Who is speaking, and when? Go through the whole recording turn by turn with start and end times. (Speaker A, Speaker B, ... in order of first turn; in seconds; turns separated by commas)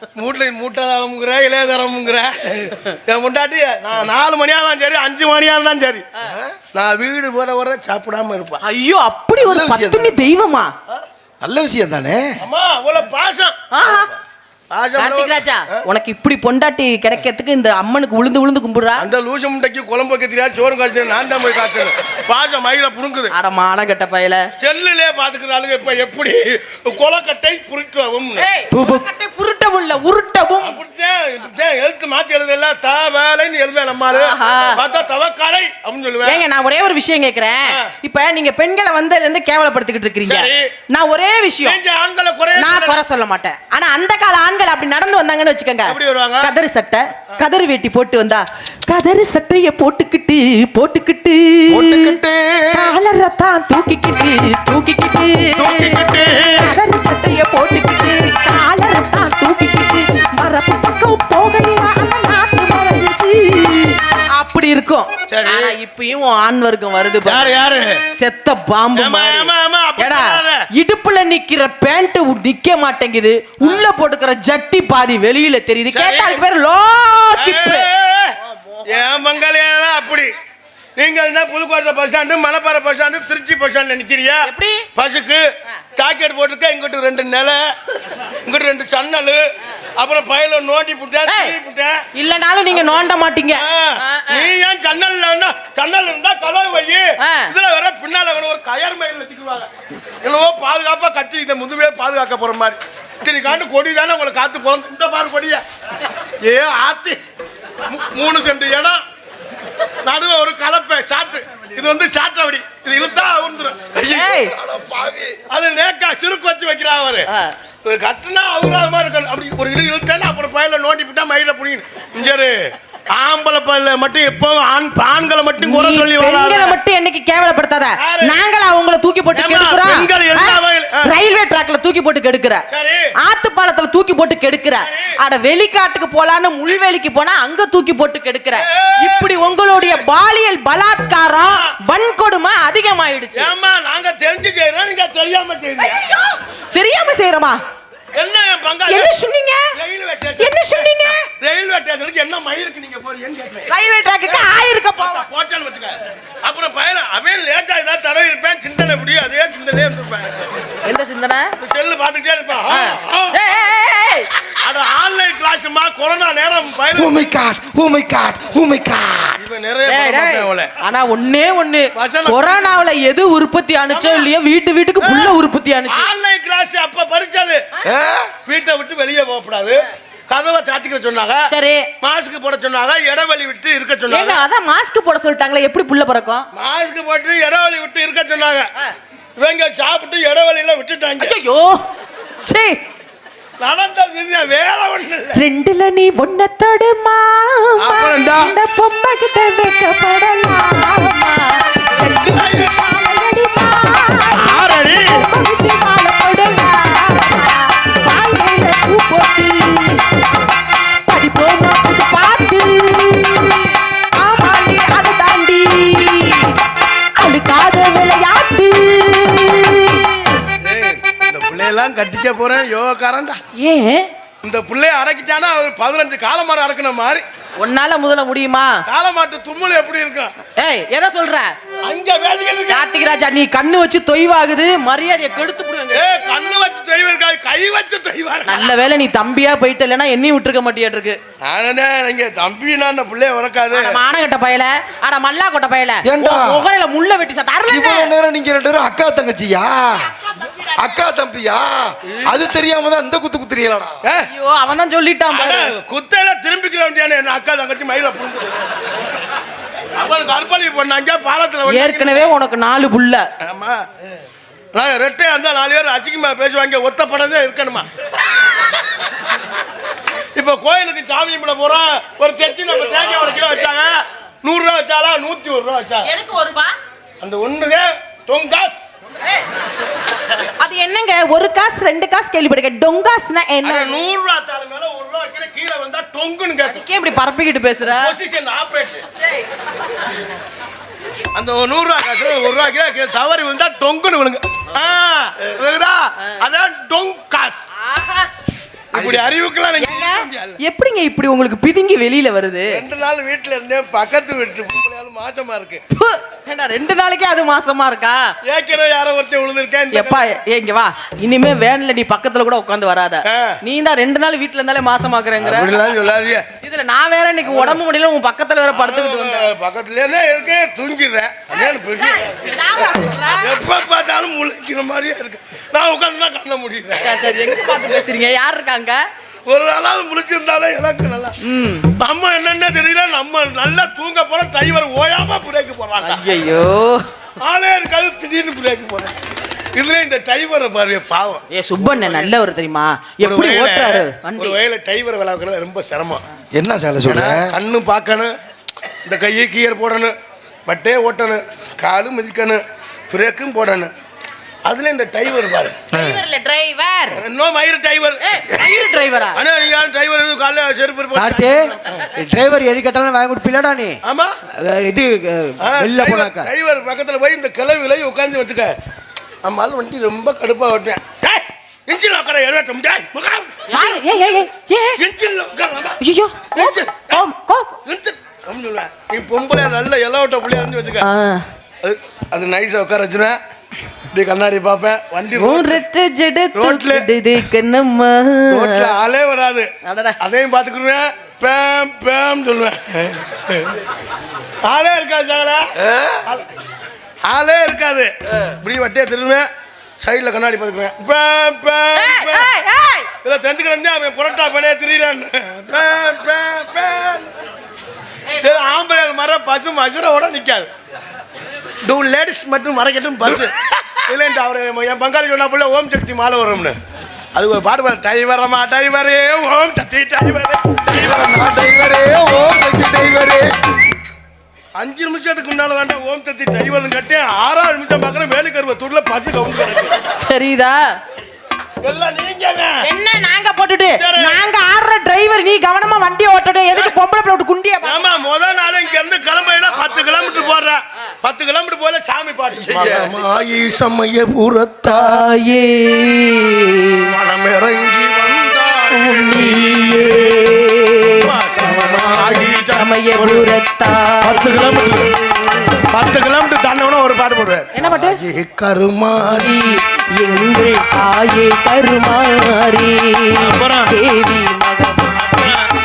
Speaker A: 0.2-6.0, Speaker B: 6.2-6.6, Speaker A: 6.7-8.6, Speaker C: 8.6-10.7, Speaker B: 9.4-10.2, Speaker B: 11.4-12.4, Speaker A: 12.4-13.6, Speaker C: 13.7-14.1, Speaker A: 14.7-15.8, Speaker C: 15.0-19.0, Speaker A: 19.0-23.3, Speaker C: 23.3-24.4, Speaker A: 24.6-28.4, Speaker C: 28.4-30.8, Speaker D: 28.7-29.0, Speaker A: 30.6-36.4, Speaker C: 34.1-34.8, Speaker C: 36.2-41.8, Speaker A: 40.2-40.7, Speaker A: 41.6-43.0, Speaker C: 42.5-52.1, Speaker A: 45.9-46.5, Speaker B: 51.7-52.9, Speaker C: 52.7-56.0, Speaker B: 55.6-56.6, Speaker A: 55.7-56.4, Speaker C: 56.6-67.5, Speaker A: 65.3-65.8, Speaker A: 67.2-68.0, Speaker C: 68.1-77.9, Speaker A: 69.0-70.6, Speaker A: 75.9-76.4, Speaker A: 77.4-78.4, Speaker C: 78.4-79.0, Speaker A: 78.9-80.3, Speaker A: 81.0-87.7, Speaker C: 84.4-84.9, Speaker A: 88.4-89.5, Speaker A: 90.0-92.0, Speaker C: 91.2-91.5, Speaker C: 92.1-94.5, Speaker A: 92.7-93.0, Speaker A: 93.5-99.7, Speaker C: 97.2-97.5, Speaker A: 100.2-105.6, Speaker A: 106.4-107.2, Speaker A: 107.8-109.0, Speaker A: 110.0-113.9, Speaker B: 113.9-115.4, Speaker C: 114.0-114.5, Speaker A: 115.5-117.3, Speaker A: 117.8-122.5, Speaker A: 123.1-126.8, Speaker C: 125.6-132.6, Speaker A: 128.0-128.4, Speaker A: 129.3-131.1, Speaker A: 132.7-133.1, Speaker C: 133.2-143.5, Speaker A: 134.8-135.1, Speaker A: 138.6-139.6, Speaker A: 141.5-141.8, Speaker A: 143.4-146.0, Speaker C: 145.8-147.6, Speaker A: 148.1-149.1, Speaker C: 148.9-149.6, Speaker A: 149.8-153.7, Speaker C: 150.4-151.3, Speaker C: 153.7-155.2, Speaker A: 154.2-160.7, Speaker C: 160.8-161.5, Speaker A: 161.6-163.4, Speaker C: 162.7-164.3, Speaker A: 164.6-167.3, Speaker B: 166.9-169.4, Speaker A: 169.4-170.7, Speaker C: 169.9-176.1, Speaker A: 172.0-172.5, Speaker A: 173.9-174.3, Speaker A: 175.0-175.3, Speaker A: 175.9-177.6, Speaker B: 177.8-178.3, Speaker A: 178.4-181.4, Speaker C: 181.5-181.9, Speaker A: 182.0-184.4, Speaker C: 184.1-186.5, Speaker A: 186.5-188.7, Speaker A: 189.4-191.3, Speaker C: 191.2-191.8, Speaker C: 192.4-192.8, Speaker A: 193.6-195.4, Speaker C: 195.3-210.1, Speaker A: 197.8-198.6, Speaker A: 202.1-202.7, Speaker A: 204.4-205.2, Speaker C: 211.1-216.6, Speaker C: 217.2-220.4, Speaker A: 220.6-223.4, Speaker C: 223.6-224.1, Speaker A: 224.4-227.2, Speaker C: 227.6-228.8, Speaker A: 228.9-230.3, Speaker C: 230.6-231.5, Speaker A: 231.8-232.9, Speaker C: 232.7-236.0, Speaker A: 235.9-238.7, Speaker C: 238.4-241.2, Speaker A: 241.4-244.0, Speaker C: 243.7-248.1, Speaker B: 246.1-246.6, Speaker B: 247.7-254.0, Speaker A: 254.0-254.3, Speaker C: 254.3-255.7, Speaker A: 255.3-258.8, Speaker A: 259.9-262.3, Speaker C: 261.6-263.2, Speaker A: 263.4-263.8, Speaker A: 264.7-267.9, Speaker A: 270.4-276.1, Speaker C: 276.0-276.7, Speaker A: 277.2-278.9, Speaker C: 280.6-284.1, Speaker A: 283.6-286.8, Speaker C: 286.6-288.1, Speaker A: 287.9-289.0, Speaker A: 291.4-297.7, Speaker C: 297.8-298.3, Speaker A: 298.9-300.6, Speaker C: 299.8-302.8, Speaker A: 302.7-305.8, Speaker C: 305.9-308.2, Speaker A: 308.4-310.2, Speaker C: 309.9-315.8, Speaker A: 313.3-313.6, Speaker A: 315.4-316.4, Speaker C: 316.6-319.5, Speaker A: 317.5-317.8, Speaker A: 318.7-322.5, Speaker C: 321.6-323.5, Speaker A: 323.4-327.9, Speaker C: 327.0-329.0, Speaker A: 329.5-331.4, Speaker C: 331.4-331.9, Speaker A: 331.9-336.2, Speaker C: 336.0-337.0, Speaker A: 337.4-339.1, Speaker A: 339.8-342.3, Speaker C: 341.5-344.6, Speaker A: 343.2-346.2, Speaker B: 346.5-347.5, Speaker A: 347.1-348.3, Speaker A: 349.1-350.1, Speaker A: 350.7-353.9, Speaker A: 354.6-355.8, Speaker B: 355.9-356.2, Speaker C: 355.9-357.2, Speaker A: 357.2-358.2, Speaker C: 358.2-359.4, Speaker A: 359.3-362.1, Speaker D: 361.1-364.0, Speaker A: 364.1-364.3, Speaker D: 364.5-366.5, Speaker A: 365.6-368.7, Speaker A: 369.4-373.9, Speaker C: 373.7-375.0, Speaker A: 375.0-376.0, Speaker C: 376.0-377.8, Speaker A: 376.5-377.2, Speaker A: 377.9-381.1, Speaker C: 381.0-381.4, Speaker A: 381.8-383.4, Speaker A: 384.1-385.8, Speaker C: 385.4-388.9, Speaker A: 386.6-387.1, Speaker A: 388.5-393.8, Speaker C: 389.8-390.1, Speaker A: 394.6-395.6, Speaker B: 395.8-396.2, Speaker A: 397.3-399.5, Speaker A: 400.0-402.5, Speaker C: 401.9-403.1, Speaker A: 403.2-407.3, Speaker A: 408.4-410.7, Speaker A: 411.8-416.8, Speaker A: 417.4-421.2, Speaker B: 420.9-423.5, Speaker A: 424.8-430.1, Speaker C: 430.2-430.8, Speaker A: 431.8-432.8, Speaker C: 432.8-438.1, Speaker A: 433.9-434.4, Speaker A: 437.8-445.2, Speaker B: 442.6-443.2, Speaker C: 444.8-447.1, Speaker A: 447.1-450.3, Speaker C: 448.9-455.8, Speaker A: 451.1-453.5, Speaker A: 454.2-455.1, Speaker A: 455.9-459.5, Speaker C: 457.7-458.2, Speaker C: 459.3-465.1, Speaker A: 463.4-463.9, Speaker A: 465.1-465.6